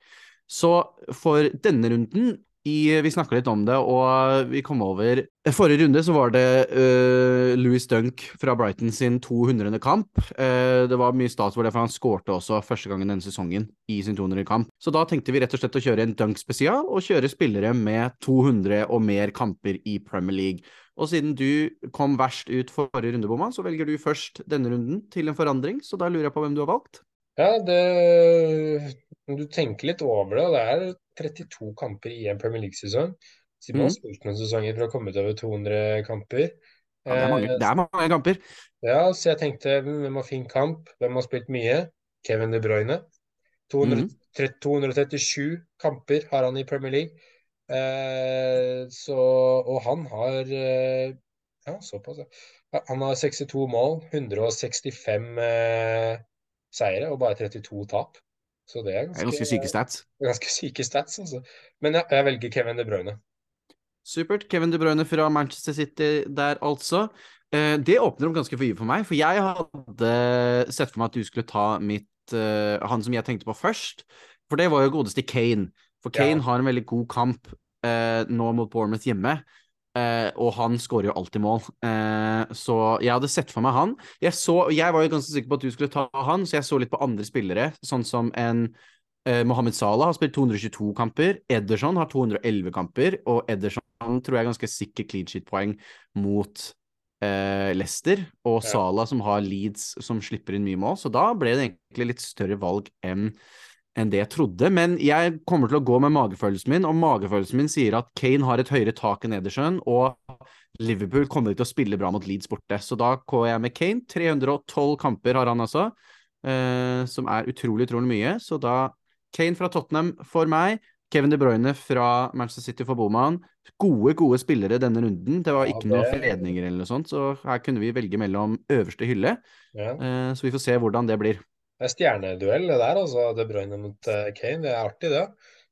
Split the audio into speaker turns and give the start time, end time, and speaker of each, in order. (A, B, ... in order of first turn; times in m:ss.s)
0:00.5-0:27.0 A
0:27.4-0:37.7 B
0:37.1-0:38.4 A
0:38.8-0:43.0 B
0:43.7-0:47.2 B
0:43.8-0:44.1 A
0:47.7-1:03.2 B
0:59.1-1:00.0 A
1:04.0-1:19.4 A
1:16.2-1:16.4 B
1:20.0-1:28.7 A
1:29.3-1:43.4 A
1:44.0-2:09.4 A
2:05.6-2:06.5 B
2:09.7-2:10.0 B
2:10.0-2:11.4 A
2:11.8-2:15.3 B